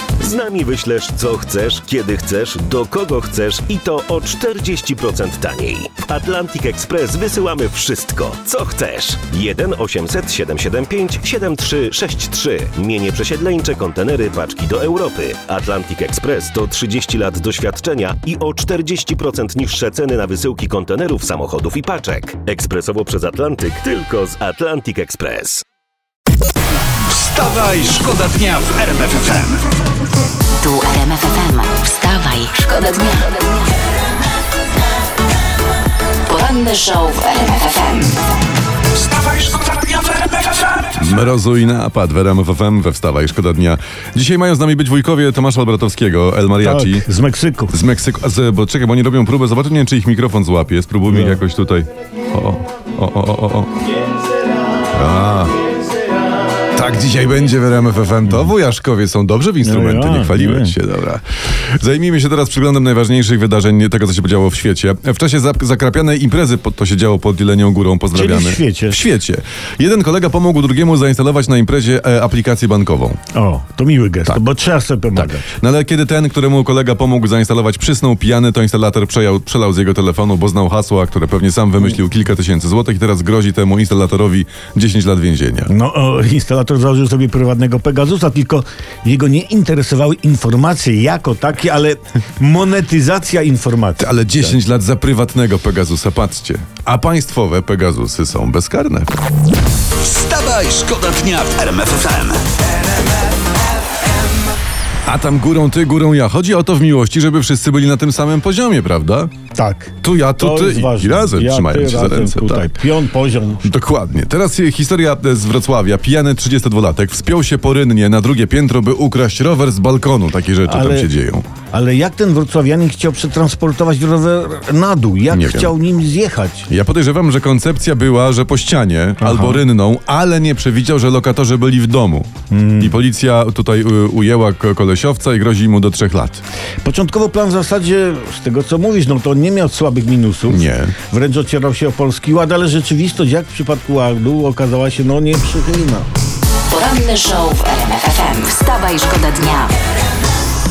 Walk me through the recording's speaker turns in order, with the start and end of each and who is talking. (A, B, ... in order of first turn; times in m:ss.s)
0:00.2-0:25.6 A
0:27.1-0:29.6 B
0:30.6-0:33.4 C
0:36.3-0:38.2 C
0:40.9-0:47.1 D
0:46.6-0:47.7 E
0:47.7-0:53.7 D
0:51.1-0:51.4 E
0:54.9-0:55.5 D
0:56.7-1:13.2 D
0:58.3-0:58.5 E
0:59.6-1:00.8 E
1:08.1-1:09.0 E
1:13.3-1:15.4 E
1:15.1-1:25.7 D
1:25.7-1:34.3 E
1:34.0-1:39.1 D
1:40.0-1:42.4 B
1:45.1-1:49.3 D
1:49.5-1:53.6 E
1:50.0-1:52.7 D
1:53.6-2:01.5 D
2:00.7-2:01.1 E
2:01.7-2:06.7 E
2:05.3-2:05.7 D
2:06.7-2:16.4 D
2:09.2-2:09.6 E
2:12.5-2:12.9 E
2:16.8-2:26.1 E
2:20.5-2:20.9 D
2:26.7-2:29.7 C